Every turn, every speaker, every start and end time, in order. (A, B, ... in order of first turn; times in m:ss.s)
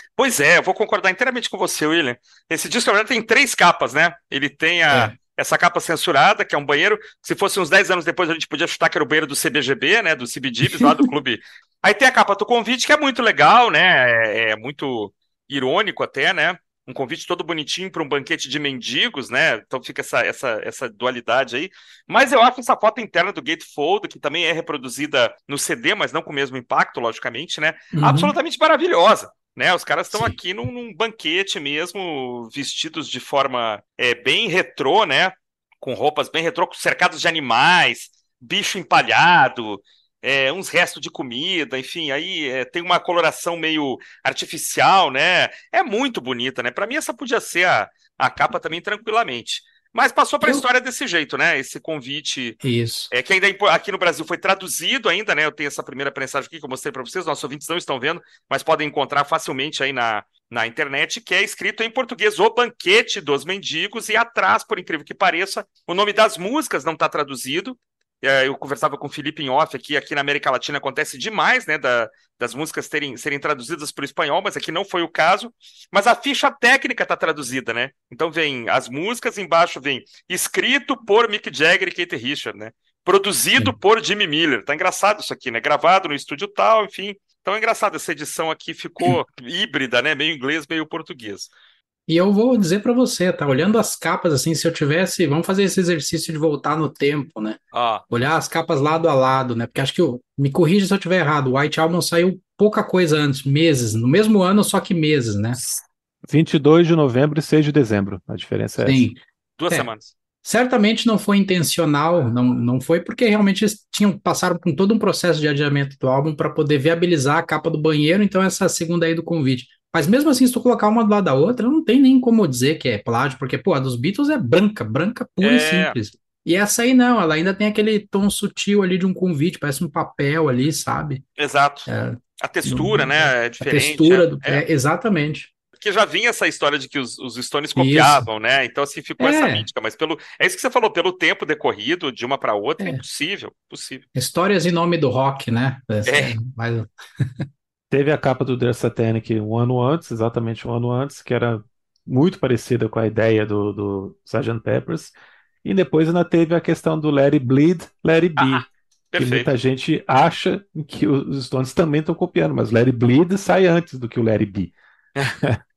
0:00.2-0:52.6 A
0:04.9-0:05.1 B
0:10.8-0:11.0 B
0:27.9-0:28.3 B
0:52.6-0:53.1 B
0:53.1-1:31.5 A
1:32.1-1:45.6 B
1:37.7-1:38.0 A
1:46.3-1:49.0 C
1:48.8-1:49.2 B
1:49.6-1:50.1 A
1:50.4-2:11.2 B
2:05.4-2:05.9 A
2:11.4-2:11.9 A
2:11.9-2:15.5 B
2:12.4-2:14.6 A
2:15.8-2:24.0 A
2:17.8-2:18.3 B
2:19.2-2:19.7 B
2:24.1-2:26.9 B
2:26.0-2:26.4 A
2:27.9-2:38.6 C
2:38.4-2:39.5 A
2:39.2-2:44.7 C